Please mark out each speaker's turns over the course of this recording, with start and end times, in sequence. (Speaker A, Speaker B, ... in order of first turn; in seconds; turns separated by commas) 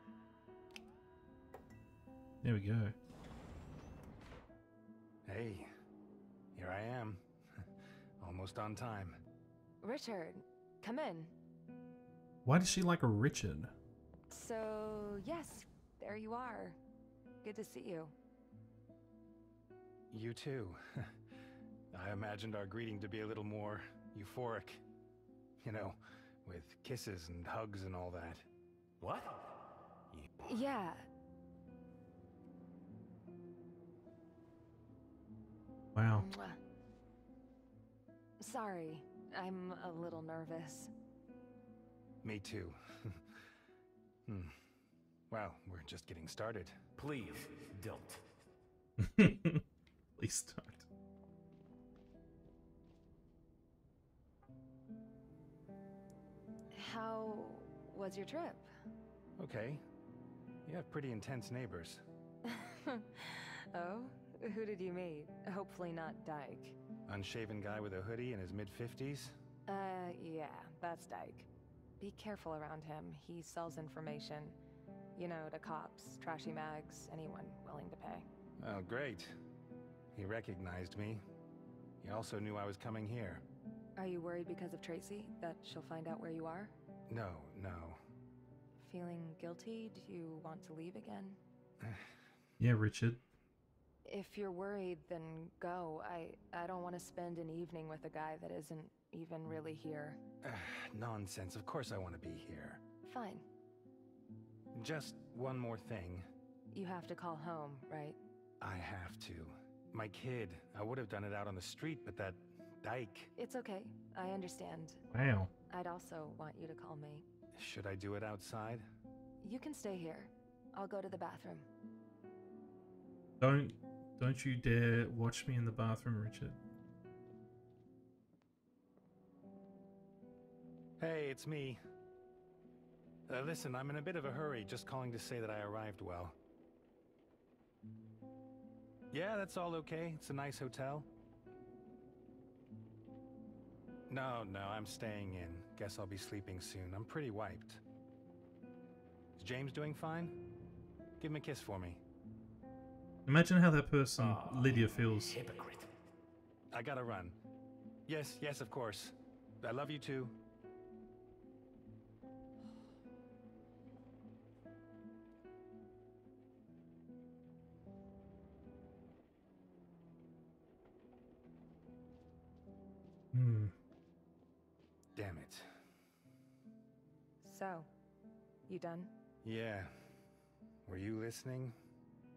Speaker A: 2.4-2.9, Speaker B: 5.2-5.7, Speaker B: 6.5-7.7, Speaker B: 8.2-9.2, Speaker C: 9.8-11.3, Speaker A: 12.4-13.7, Speaker C: 14.3-16.8, Speaker C: 17.4-18.1, Speaker B: 20.1-21.2, Speaker B: 21.9-24.8, Speaker B: 25.6-28.4, Speaker D: 29.0-30.2, Speaker C: 30.4-31.1, Speaker A: 35.9-36.3, Speaker C: 36.1-36.6, Speaker C: 38.4-40.9, Speaker B: 42.2-43.4, Speaker B: 44.2-44.6, Speaker B: 45.3-46.8, Speaker D: 47.0-48.4, Speaker A: 49.0-49.6, Speaker A: 50.2-50.9, Speaker C: 56.7-58.7, Speaker B: 59.4-59.8, Speaker B: 60.6-62.0, Speaker C: 62.5-66.8, Speaker B: 67.1-69.3, Speaker C: 69.7-71.5, Speaker C: 72.0-74.6, Speaker C: 75.2-78.3, Speaker B: 78.6-79.3, Speaker B: 80.1-81.2, Speaker B: 82.0-83.4, Speaker C: 84.0-86.7, Speaker B: 87.1-88.0, Speaker C: 88.8-91.4, Speaker B: 91.8-92.2, Speaker A: 92.6-93.2, Speaker C: 94.0-100.2, Speaker B: 100.4-102.8, Speaker C: 103.0-103.5, Speaker B: 104.7-106.3, Speaker C: 106.7-108.2, Speaker B: 108.6-113.3, Speaker C: 113.4-115.0, Speaker A: 115.1-115.5, Speaker C: 115.7-117.2, Speaker B: 117.5-118.8, Speaker C: 119.4-121.7, Speaker A: 123.4-126.5, Speaker B: 131.0-131.8, Speaker B: 133.3-136.4, Speaker B: 139.1-141.1, Speaker B: 144.1-147.8, Speaker B: 149.4-150.4, Speaker B: 151.2-152.0, Speaker A: 153.2-155.4, Speaker D: 154.2-155.9, Speaker B: 156.7-157.4, Speaker B: 158.1-160.4, Speaker A: 173.3-173.7, Speaker B: 175.1-175.8, Speaker C: 177.4-177.9, Speaker C: 178.7-179.1, Speaker B: 179.4-180.1, Speaker B: 180.8-181.8